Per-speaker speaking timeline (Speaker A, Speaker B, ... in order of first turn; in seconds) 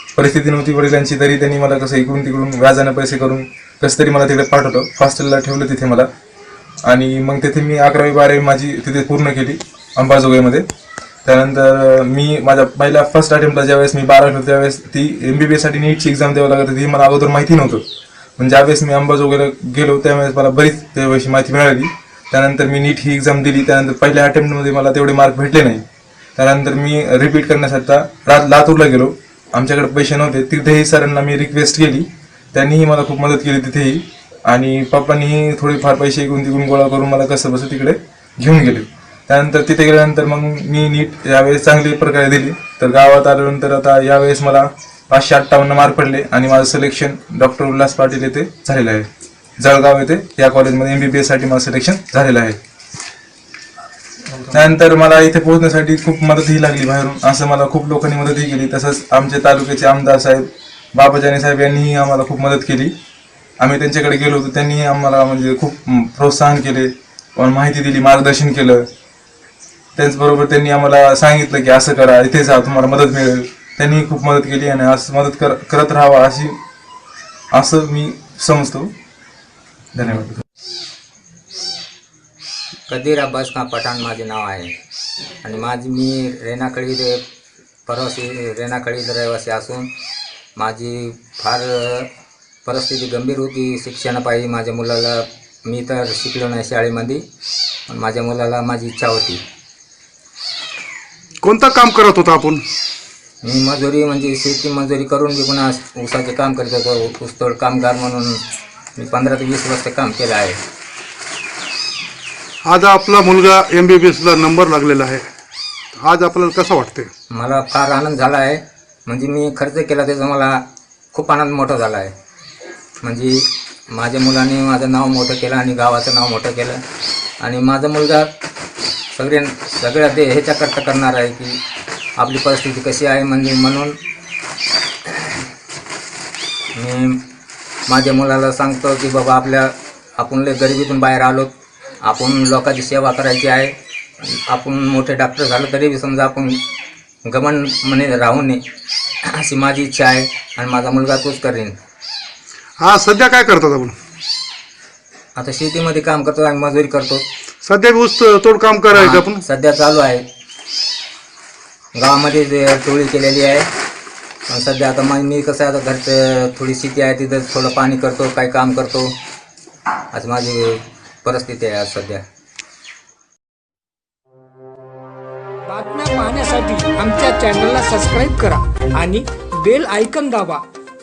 Speaker A: 0.2-6.1, 6.9-10.7, 11.2-17.8, 18.4-25.8, 26.4-49.1, 49.6-52.6, 54.5-62.9, 63.6-68.8, 70.0-76.6, 77.5-78.9, 80.0-80.4
Speaker B: 82.9-84.7, 85.4-87.2, 87.9-89.9, 90.6-92.1, 92.7-97.2, 97.9-99.4, 103.4-108.4, 109.0-110.6, 117.3-120.6, 121.1-122.1, 123.0-126.8, 127.4-128.3, 129.2-131.6, 132.2-134.0, 136.8-137.2, 137.9-141.5, 142.0-146.6, 147.2-148.6, 149.4-151.8, 155.4-157.2, 158.9-160.2, 161.9-163.7, 164.5-169.1, 170.1-172.2
Speaker C: 101.4-102.7, 112.6-115.3, 116.0-117.1, 152.8-154.0, 157.6-159.4
Speaker D: 175.7-180.7